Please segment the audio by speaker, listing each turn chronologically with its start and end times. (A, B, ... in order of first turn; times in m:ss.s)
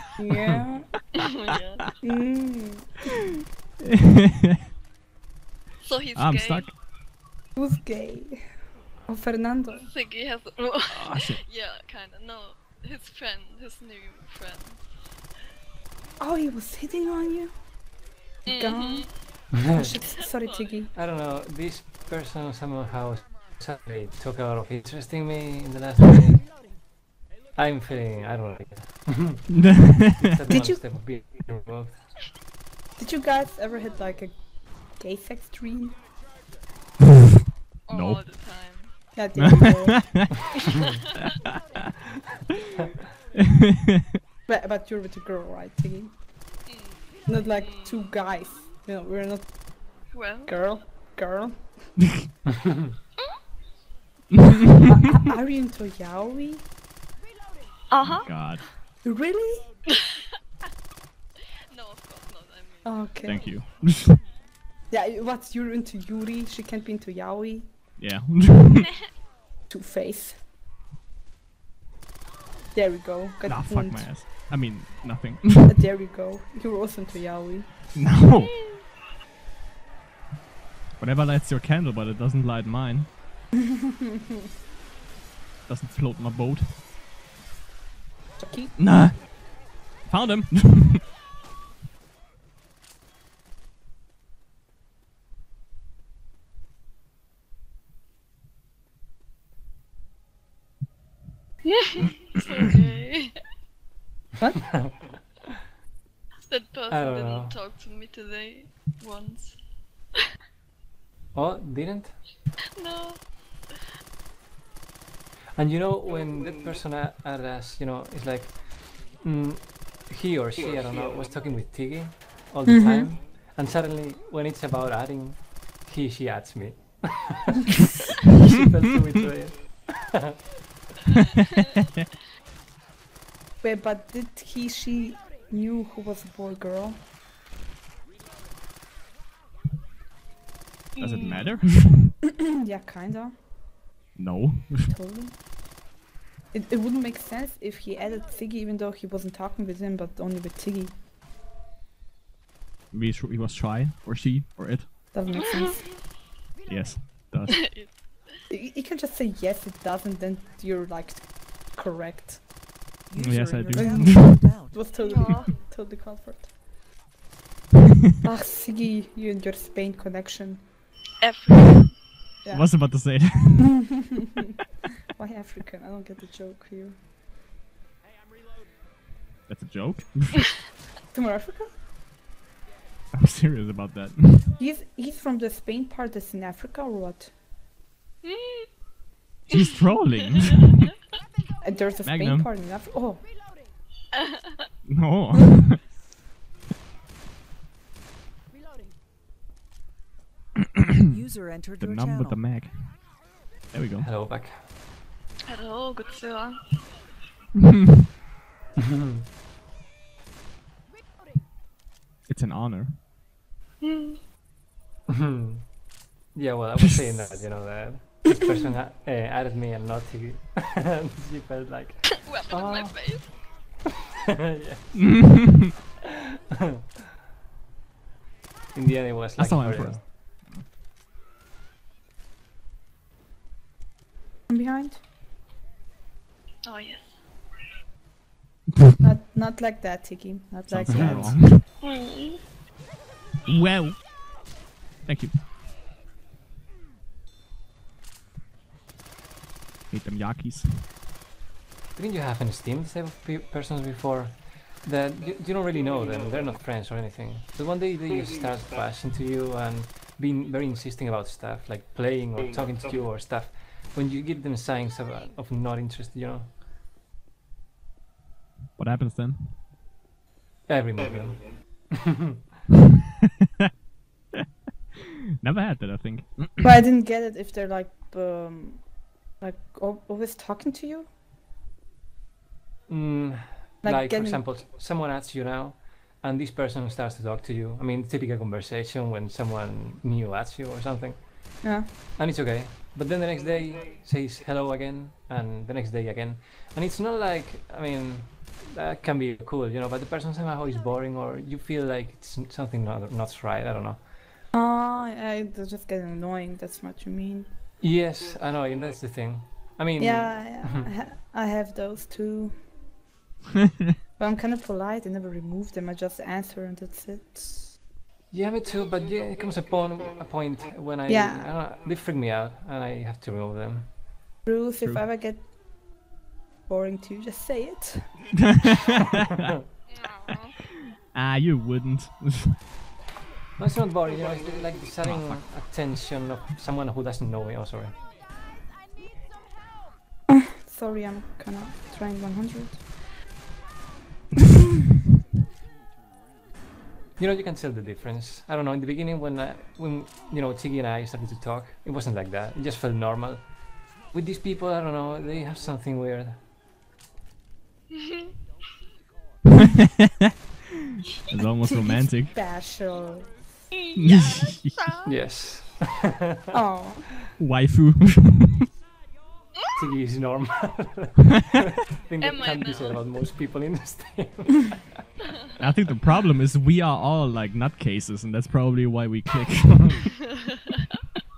0:00.2-0:00.9 A
0:01.2-0:01.8 B
0:02.0-0:03.1 A
0:03.8-0:04.6 C
0:05.8-0:06.7 B
0:06.1-0:06.7 C
0:07.5-0:09.9 A
0:09.8-0:14.9 B
0:10.9-0:11.4 C
0:16.2-0:20.9 A
0:18.5-0:19.2 B
0:19.5-0:19.9 D
0:20.4-0:20.7 B
0:20.9-0:26.5 D
0:27.5-0:32.1 D
0:29.5-0:30.2 C
0:30.5-0:30.8 A
0:33.0-0:36.0 A
0:37.9-0:39.1 B
0:37.9-0:38.2 C
0:39.1-0:40.3 A
0:39.4-0:40.4 C
0:44.5-0:46.4 A
0:46.6-0:47.5 B
0:47.2-0:51.9 A
0:50.1-0:50.5 B
0:54.9-0:56.6 A
0:57.9-0:58.6 B
0:58.1-0:58.6 C
0:59.0-0:59.7 A
1:01.7-1:03.5 B
1:02.8-1:03.5 A
1:03.2-1:04.2 C
1:04.9-1:07.7 A
1:08.0-1:08.9 C
1:09.7-1:10.4 A
1:12.7-1:14.1 A
1:13.4-1:15.7 C
1:15.6-1:17.7 A
1:17.9-1:18.7 C
1:21.0-1:23.1 C
1:25.6-1:26.8 C
1:28.4-1:28.8 A
1:28.8-1:31.0 C
1:41.6-1:43.4 B
1:46.5-1:49.6 B
1:46.9-1:47.5 D
1:51.3-1:52.2 D
1:52.8-1:53.8 B
1:55.5-2:07.8 D
2:02.7-2:03.1 A
2:08.3-2:10.3 D
2:13.6-2:17.0 A
2:21.0-2:21.5 B
2:21.0-2:22.1 C
2:22.5-2:23.4 A
2:24.1-2:24.9 C
2:24.9-2:25.3 A
2:26.5-2:30.9 A
2:32.9-2:35.0 C
2:35.1-2:35.9 A
2:35.3-2:36.0 B
2:36.6-2:37.8 C
2:37.6-2:38.4 B
2:38.5-2:42.4 A
2:43.1-2:45.0 E
2:43.2-2:44.6 C
2:44.0-2:46.5 A
2:45.0-2:45.5 B
2:48.2-2:50.7 A
2:51.2-2:51.9 B
2:52.4-2:53.4 A
2:52.5-2:54.0 C
2:55.1-2:57.0 A
2:59.5-3:00.7 C
3:01.1-3:01.7 A
3:03.1-3:04.5 C
3:04.6-3:07.3 A
3:08.2-3:08.7 B
3:09.5-3:10.8 C
3:10.2-3:10.8 B
3:11.6-3:13.2 A
3:12.0-3:12.5 C
3:14.1-3:14.6 B
3:14.8-3:15.8 C
3:21.1-3:22.4 E
3:21.8-3:23.1 C
3:23.7-3:24.1 C
3:24.0-3:24.6 D
3:25.5-3:27.0 B
3:28.8-3:29.2 D
3:32.2-3:33.0 C
3:33.8-3:34.2 B
3:35.1-3:43.4 D
3:42.2-3:43.3 B
3:44.4-3:45.3 D
3:44.9-3:45.7 C
3:48.7-3:50.0 D
3:49.4-3:50.6 C
3:54.5-3:55.0 A
3:56.6-3:57.2 B
3:59.0-4:01.4 A
4:00.7-4:01.6 C
4:00.9-4:01.4 D
4:01.8-4:02.4 B
4:03.4-4:04.1 C
4:05.0-4:05.3 C
4:09.9-4:10.9 C
4:12.0-4:26.5 D
4:28.8-4:29.6 C
4:30.7-4:32.4 D
4:35.0-4:36.6 C
4:36.6-4:41.1 A
4:42.9-5:04.2 D
4:43.8-4:44.4 A
4:51.6-4:51.9 A
5:04.5-5:07.5 A
5:07.8-5:10.9 D
5:10.0-5:12.6 A
5:14.2-5:17.8 A
5:18.3-5:23.9 D
5:21.1-5:21.5 A
5:24.4-5:25.4 A
5:26.7-5:28.3 A
5:29.9-5:30.6 B
5:31.0-5:32.6 C
5:33.6-5:38.0 D
5:35.0-5:35.4 C
5:40.3-5:42.8 A
5:47.2-5:56.4 D
5:58.0-5:58.3 B
6:01.2-6:02.3 C
6:01.6-6:03.4 A
6:03.8-6:05.1 B
6:03.9-6:04.8 C
6:05.0-6:06.5 D
6:06.5-6:07.1 A
6:07.4-6:08.6 C
6:09.8-6:15.0 D
6:12.2-6:13.0 B
6:15.6-6:20.2 C